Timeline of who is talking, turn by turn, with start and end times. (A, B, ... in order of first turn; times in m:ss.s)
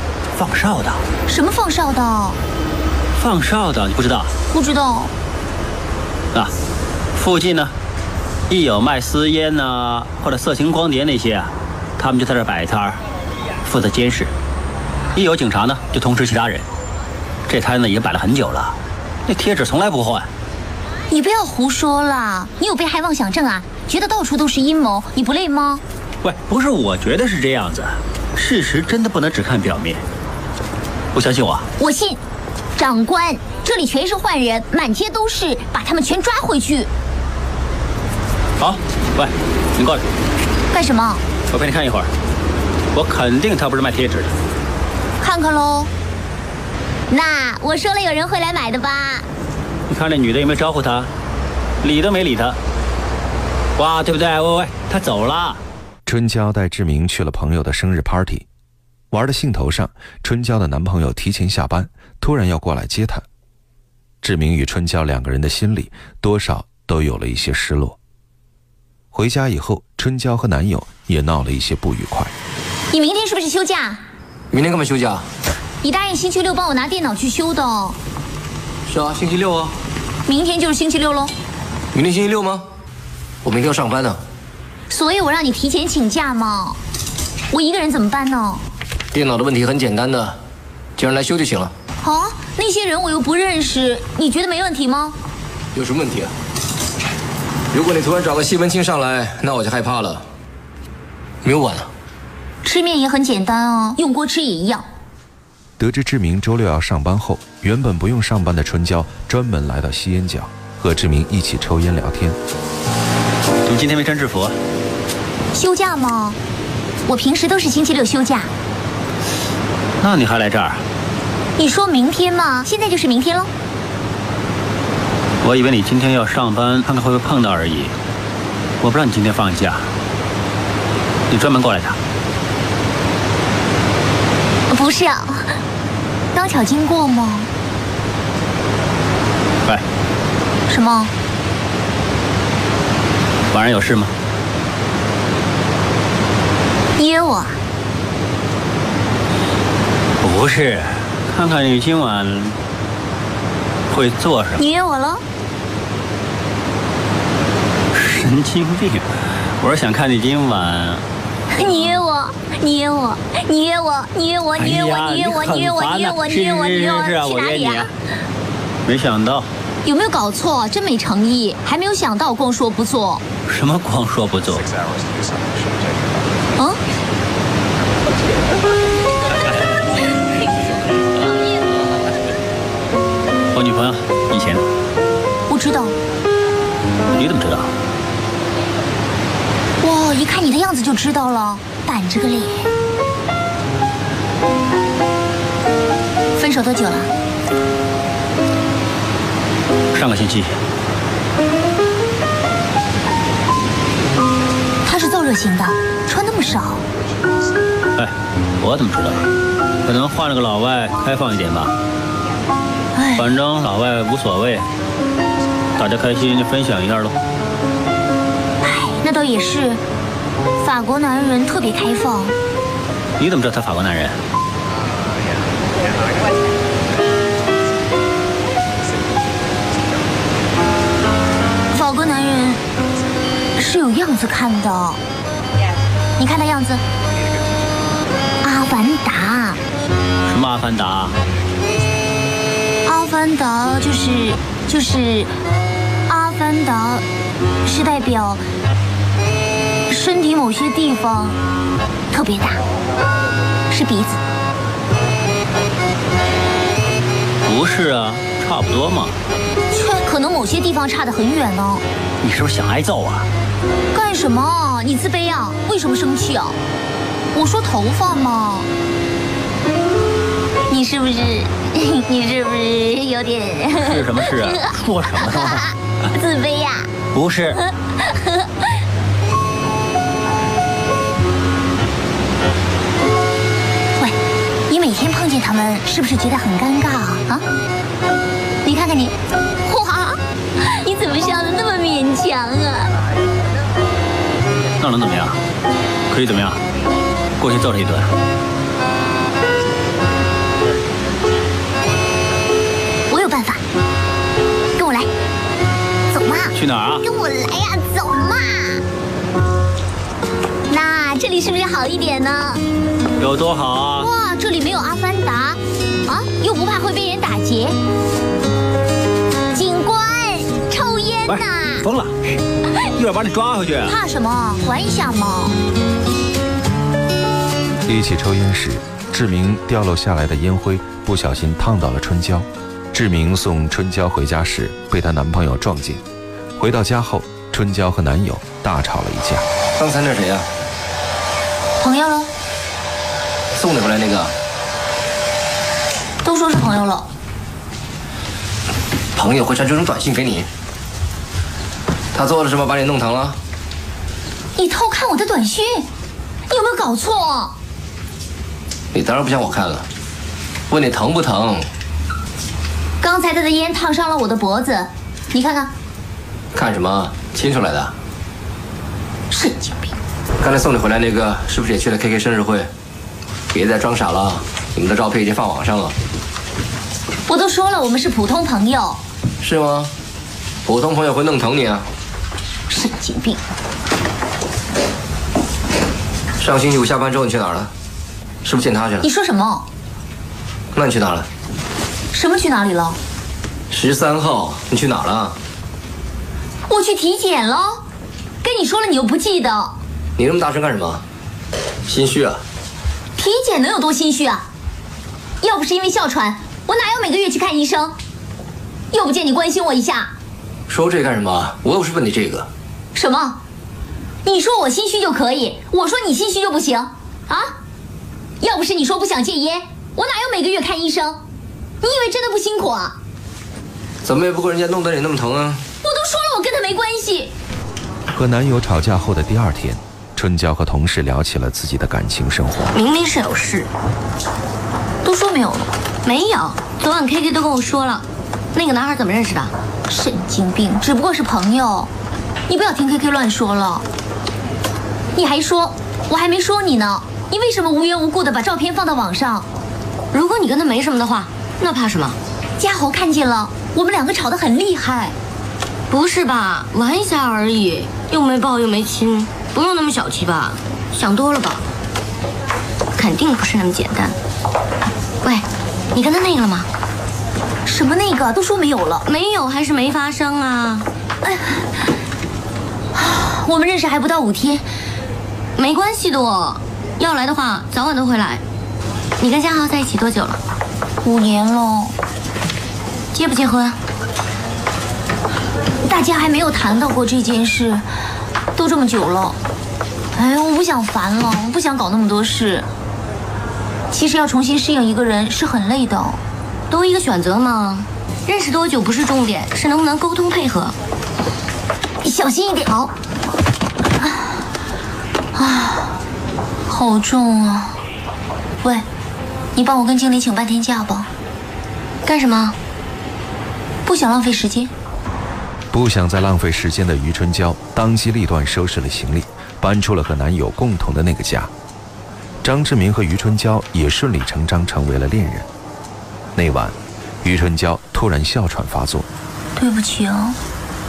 0:00.3-0:01.0 A
0:01.3-0:02.4 B
0:03.2-0:04.3 A
0:04.5-0:05.1 B
0:07.1-0:07.7 A
0:08.5-0:13.0 A
0:13.6-0:14.3 A
0:15.1-0:16.6 A
0:17.5-0:18.8 A
0:19.3-0:20.3 A
0:21.1-0:25.8 B
0:26.2-0:30.0 A
0:31.1-0:31.7 A
0:31.8-0:32.2 B
0:32.8-0:36.9 B
0:38.6-0:40.0 A
0:40.7-0:41.2 B
0:41.5-0:42.1 A
0:42.9-0:44.3 A
0:45.2-0:45.9 B
0:47.1-0:49.3 B
0:49.9-0:51.1 A
0:51.8-0:52.6 A
0:53.8-0:55.6 A
0:56.0-0:58.4 C
0:59.1-1:03.2 C
1:04.2-1:08.0 C
1:09.1-1:12.3 C
1:12.9-1:14.0 B
1:14.5-1:15.2 D
1:15.8-1:18.0 B
1:18.9-1:19.7 D
1:20.2-1:21.3 B
1:21.9-1:22.6 D
1:23.4-1:24.2 D
1:24.9-1:26.8 B
1:27.5-1:28.6 B
1:29.1-1:30.4 D
1:31.0-1:31.7 D
1:32.0-1:35.2 B
1:35.7-1:36.3 D
1:37.7-1:40.2 D
1:41.4-1:41.9 D
1:42.6-1:44.8 B
1:45.8-1:52.4 C
1:53.6-1:54.6 A
1:55.5-1:56.4 B
1:57.1-1:58.5 B
2:00.0-2:00.8 A
2:01.6-2:03.5 B
2:05.4-2:07.9 A
2:08.8-2:09.9 A
2:11.3-2:12.0 A
2:14.7-2:15.6 B
2:16.3-2:17.5 B
2:20.7-2:21.1 B
2:23.5-2:24.1 A
2:27.0-2:27.6 B
2:30.2-2:32.6 A
2:33.9-2:34.6 A
2:34.6-2:35.2 B
2:37.9-2:39.1 A
2:39.6-2:41.0 A
2:41.5-2:47.9 B
2:44.6-2:47.9 A
2:48.8-2:49.5 A
2:49.8-2:53.2 B
2:53.5-2:54.7 A
3:03.5-3:04.6 A
3:05.5-3:06.0 B
3:07.1-3:07.7 A
3:09.8-3:12.7 B
3:16.4-3:17.1 B
3:19.9-3:20.6 A
3:24.8-3:26.8 B
3:28.0-3:29.2 A
3:29.8-3:31.7 A
3:32.9-3:33.3 B
3:33.2-3:34.6 A
3:35.8-3:37.2 A
3:38.6-3:39.8 B
3:40.6-3:42.4 B
3:43.2-3:44.2 A
3:51.7-3:52.6 B
3:53.6-3:55.0 B
3:56.2-3:56.8 B
3:58.4-3:59.6 B
4:00.2-4:01.2 A
4:02.8-4:05.3 B
4:06.1-4:07.0 B
4:07.6-4:08.4 B
4:09.9-4:11.4 B
4:12.1-4:12.6 B
4:13.7-4:14.2 B
4:17.4-4:19.1 A
4:19.7-4:21.8 B
4:22.2-4:23.3 A
4:23.9-4:26.6 B
4:27.3-4:28.7 B
4:30.7-4:36.9 B
4:33.8-4:35.7 A
4:37.1-4:37.6 A
4:37.7-4:38.5 B
4:44.7-4:47.4 B
4:48.6-4:52.9 B
4:54.8-4:55.4 A
4:56.1-4:56.6 A
4:57.4-4:58.1 A
5:03.1-5:03.6 B
5:04.8-5:05.1 B
5:06.1-5:08.8 B
5:06.5-5:07.0 A
5:10.7-5:12.6 B
5:13.2-5:14.1 A
5:14.0-5:17.8 B
5:19.5-5:21.8 B
5:21.3-5:24.0 A
5:23.8-5:25.6 B
5:27.8-5:36.0 C
5:36.6-5:39.4 C
5:39.8-5:40.5 D
5:41.8-5:42.3 B
5:43.5-5:44.3 D
5:46.2-5:47.1 B
5:49.1-5:50.5 D
5:52.1-5:53.4 D
5:54.6-5:55.9 B
5:56.5-5:57.5 B
5:58.9-5:59.8 D
6:00.7-6:01.7 D
6:03.0-6:05.7 B
6:06.5-6:07.9 D
6:09.3-6:09.9 B
6:10.4-6:12.7 D
6:13.5-6:15.9 D
6:17.3-6:19.0 B
6:19.4-6:19.9 D
6:20.6-6:21.8 D
6:22.7-6:23.4 B
6:26.4-6:27.7 D
6:28.4-6:29.0 D
6:29.0-6:29.6 B
6:30.7-6:31.3 D
6:32.1-6:33.0 B
6:33.7-6:35.4 D
6:36.7-6:37.8 B
6:38.4-6:39.7 B
6:40.2-6:41.0 D
6:41.9-6:42.4 D
6:43.2-6:44.4 B
6:45.4-6:47.9 B
6:48.9-6:50.1 B
6:50.7-6:52.5 D
6:52.9-6:53.4 B
6:54.2-6:57.5 B
6:58.4-7:01.2 B
7:01.8-7:02.9 B
7:04.0-7:05.6 D
7:05.8-7:07.3 B
7:08.1-7:12.7 C
7:12.7-7:13.7 E
7:15.0-7:15.7 B
7:16.0-7:19.5 E
7:19.9-7:21.9 B
7:22.5-7:23.8 B
7:25.1-7:29.5 B
7:30.1-7:32.2 E
7:32.6-7:35.2 B
7:35.9-7:41.6 E
7:43.0-7:44.1 E
7:45.2-7:46.7 E
7:47.6-7:49.0 B
7:49.0-7:50.9 E
7:51.2-7:51.7 B
7:52.9-7:54.6 B
7:55.6-7:58.4 E
7:59.2-8:00.4 E
8:01.0-8:01.9 B
8:03.1-8:03.8 E
8:05.8-8:07.8 B
8:08.6-8:09.4 B
8:10.1-8:12.7 B
8:13.9-8:16.2 B
8:16.7-8:20.7 E
8:22.0-8:22.9 B
8:25.3-8:26.0 B
8:26.7-8:27.8 B
8:29.5-8:31.1 B
8:32.0-8:32.6 E
8:33.8-8:34.7 B
8:35.7-8:41.5 C
8:42.4-8:45.5 C
8:46.3-8:49.1 C
8:49.6-8:50.4 B